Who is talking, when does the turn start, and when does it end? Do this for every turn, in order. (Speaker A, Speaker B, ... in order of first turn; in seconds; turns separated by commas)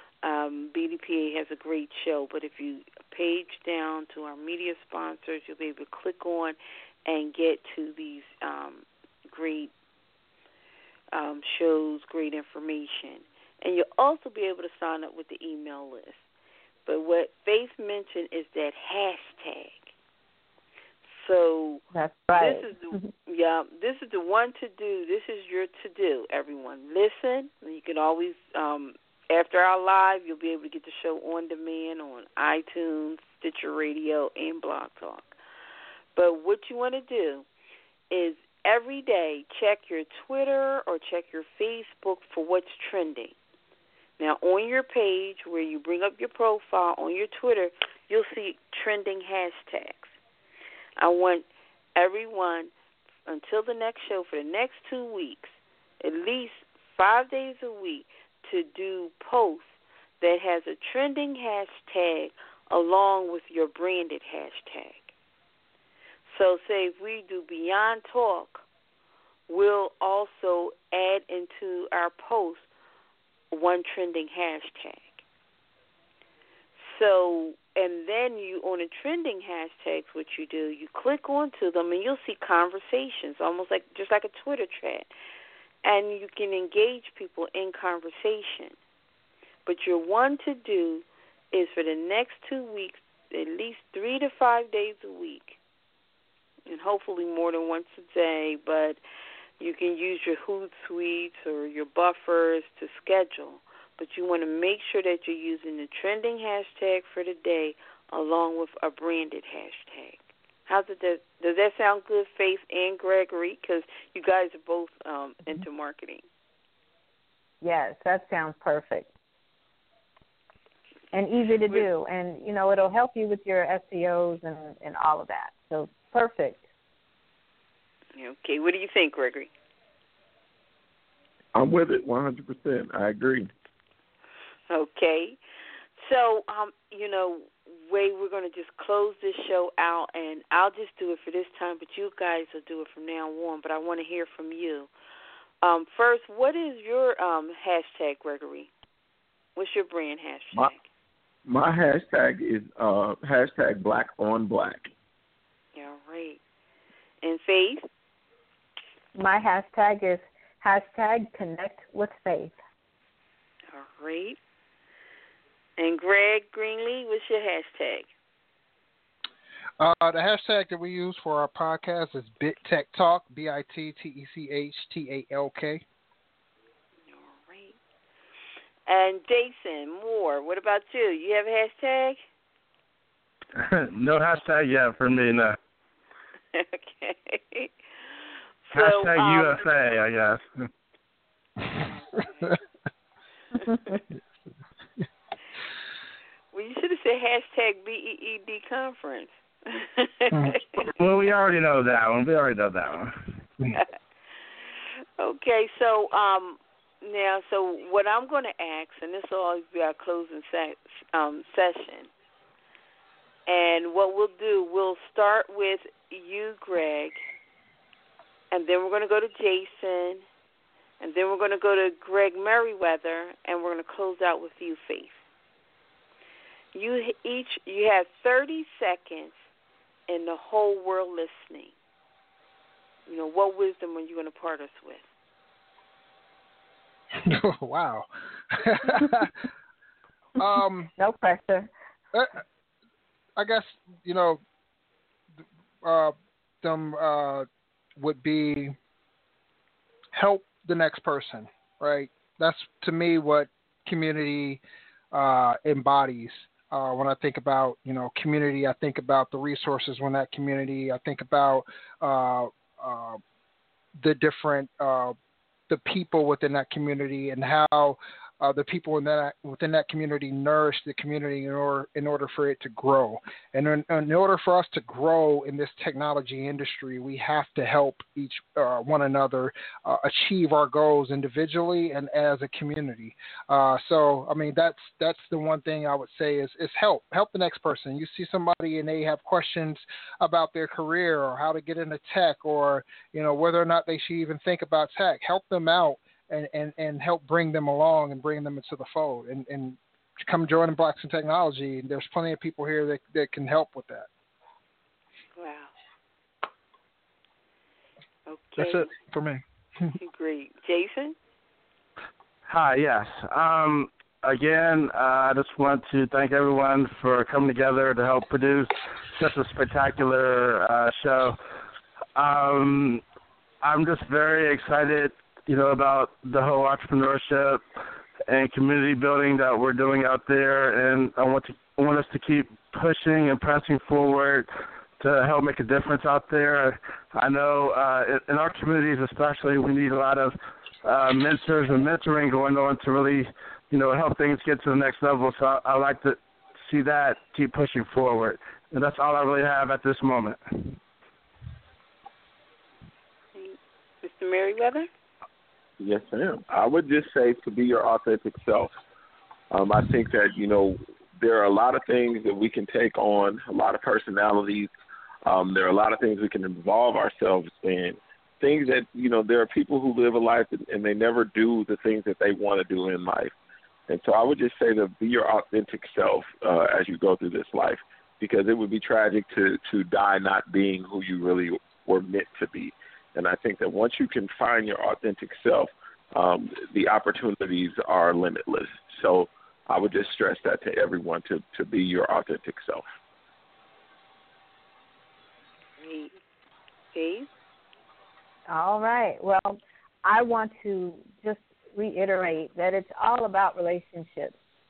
Speaker A: 0.2-9.7, Speaker A: 11.1-16.2, Speaker A: 16.9-19.9, Speaker A: 21.1-21.8, Speaker B: 21.9-23.1, Speaker A: 22.4-35.3, Speaker A: 36.2-37.5, Speaker A: 38.1-43.4, Speaker A: 44.2-50.2, Speaker A: 51.0-52.7, Speaker A: 53.3-65.1, Speaker A: 66.3-68.7, Speaker A: 69.5-72.7, Speaker A: 73.5-75.2, Speaker A: 76.8-85.1, Speaker A: 85.8-88.8, Speaker A: 89.7-95.6, Speaker A: 96.7-99.0, Speaker A: 99.6-116.3, Speaker B: 117.6-119.1, Speaker B: 121.1-126.6, Speaker A: 128.2-129.5, Speaker C: 131.5-133.5, Speaker A: 134.7-135.4, Speaker A: 136.0-144.9, Speaker A: 145.6-148.7, Speaker A: 149.6-150.8, Speaker C: 151.5-154.9, Speaker A: 155.8-156.4, Speaker A: 157.2-157.9, Speaker B: 159.1-162.6, Speaker A: 163.7-164.4, Speaker A: 165.8-168.1, Speaker D: 169.8-175.8, Speaker A: 177.1-177.8, Speaker A: 178.9-182.2, Speaker E: 183.6-185.6, Speaker A: 186.5-187.7, Speaker A: 188.7-189.6, Speaker E: 188.7-190.6, Speaker A: 191.8-192.2, Speaker A: 196.5-200.8, Speaker D: 200.3-200.6, Speaker E: 200.8-203.3, Speaker A: 205.2-212.1, Speaker A: 213.5-217.2, Speaker A: 218.5-220.2, Speaker A: 221.0-225.2, Speaker A: 226.7-229.4, Speaker A: 230.1-231.8, Speaker A: 233.1-235.1, Speaker D: 237.2-239.3, Speaker D: 240.4-240.9, Speaker B: 241.0-241.7, Speaker D: 243.4-244.4, Speaker D: 245.8-247.5, Speaker D: 248.0-248.8, Speaker D: 250.1-254.6, Speaker D: 255.1-263.2, Speaker D: 264.0-265.1, Speaker D: 265.7-304.1, Speaker A: 305.4-305.7, Speaker A: 308.3-308.9, Speaker D: 308.6-309.9, Speaker A: 310.0-311.2, Speaker E: 312.4-321.4, Speaker E: 322.1-323.0, Speaker E: 323.6-327.6, Speaker E: 328.3-334.5, Speaker E: 335.0-350.8, Speaker A: 353.4-354.9, Speaker C: 355.8-358.7, Speaker C: 359.5-364.7, Speaker C: 365.2-373.3, Speaker C: 373.9-392.8, Speaker A: 395.8-396.1, Speaker A: 396.9-397.3, Speaker B: 398.5-404.4